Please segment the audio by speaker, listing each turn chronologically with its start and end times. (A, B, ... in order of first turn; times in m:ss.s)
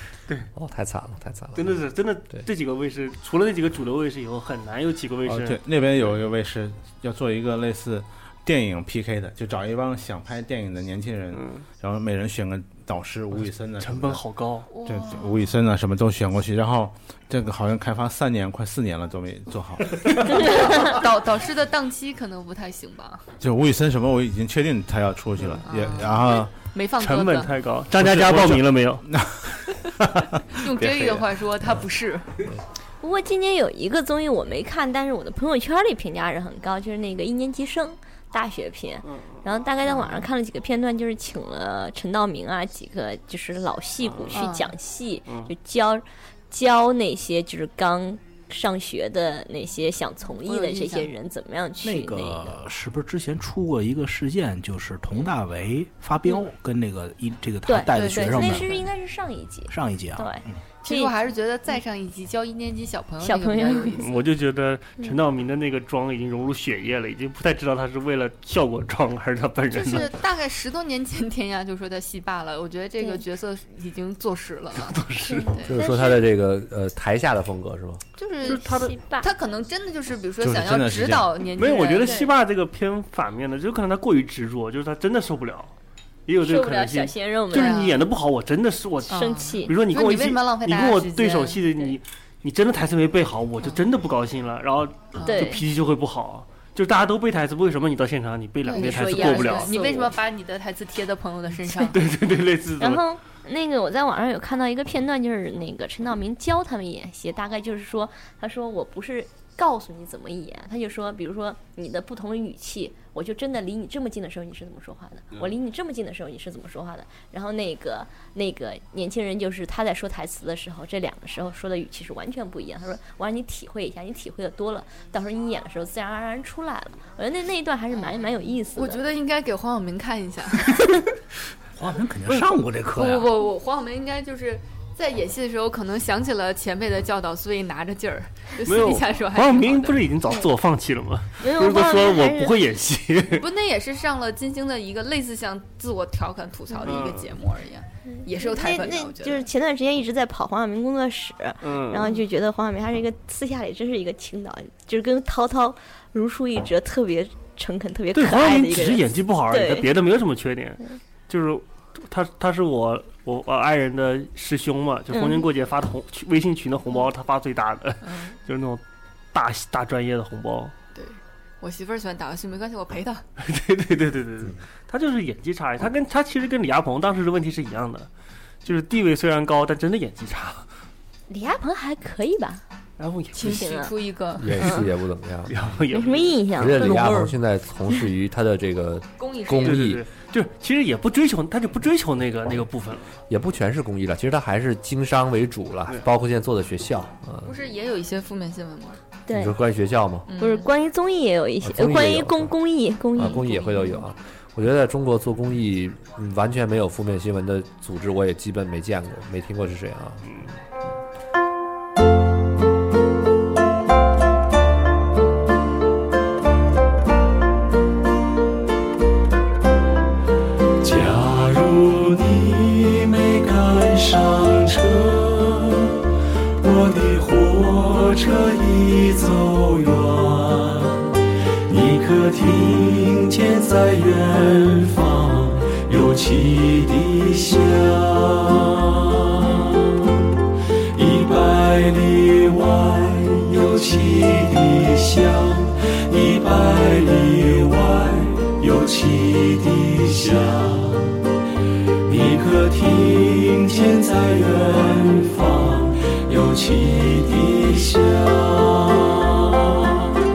0:00.5-0:01.7 A
0:01.5-0:05.6 B
0:05.3-0:14.2 C
0:11.3-0:11.6 B
0:13.4-0:14.7 B
0:14.7-0:15.3 D
0:14.8-0:20.4 C
0:20.3-0:23.2 D
0:23.4-0:26.6 C
0:25.6-0:27.5 D
0:27.0-0:29.0 B
0:28.0-0:31.3 C
0:30.6-0:32.3 D
0:33.0-0:52.6 E
0:39.9-0:40.2 D
0:44.1-0:44.4 B
0:44.3-0:44.7 D
0:50.4-0:51.1 D
0:51.8-0:58.8 F
0:57.6-1:01.1 E
0:57.9-0:58.8 D
0:59.7-1:00.6 F
1:00.8-1:04.3 D
1:03.2-1:04.0 E
1:04.0-1:10.1 B
1:09.7-1:15.8 D
1:14.7-1:15.5 B
1:15.3-1:16.2 E
1:15.7-1:18.0 A
1:18.2-1:18.7 D
1:18.4-1:19.3 E
1:18.4-1:18.9 B
1:19.2-1:22.3 D
1:20.4-1:21.3 C
1:21.6-1:25.7 B
1:22.0-1:22.3 E
1:26.3-1:39.7 B
1:26.4-1:27.8 E
1:27.5-1:28.0 D
1:29.1-1:29.7 E
1:29.1-1:31.9 D
1:35.2-1:35.5 D
1:35.2-1:35.6 E
1:38.6-1:42.0 D
1:38.7-1:40.1 E
1:41.9-1:43.0 B
1:42.8-2:09.0 E
2:08.7-2:10.8 D
2:11.8-2:13.4 F
2:12.9-2:20.1 D
2:18.6-2:23.4 B
2:21.4-2:22.6 E
2:23.3-2:29.5 D
2:26.8-2:27.3 B
2:28.1-2:39.9 E
2:31.6-2:32.0 B
2:38.1-2:48.8 B
2:45.1-2:45.4 E
2:48.0-2:48.3 D
2:49.3-2:50.7 B
2:50.9-2:53.2 D
2:53.4-2:58.1 B
2:58.6-3:00.6 B
3:01.3-3:02.6 E
3:03.0-3:03.7 B
3:03.3-3:04.6 D
3:03.4-3:03.9 E
3:04.4-3:05.5 A
3:04.6-3:04.8 E
3:05.5-3:07.2 B
3:05.9-3:07.1 E
3:06.6-3:10.0 A
3:09.2-3:09.8 D
3:09.6-3:13.1 B
3:13.3-3:17.5 A
3:17.4-3:19.0 D
3:19.3-3:19.5 E
3:19.3-3:20.3 A
3:20.3-3:20.7 D
3:20.3-3:24.0 E
3:21.6-3:22.5 A
3:23.2-3:30.2 A
3:40.8-3:45.9 G
3:46.6-3:51.1 G
3:51.7-3:59.9 G
4:00.9-4:11.2 G
4:12.0-4:19.6 G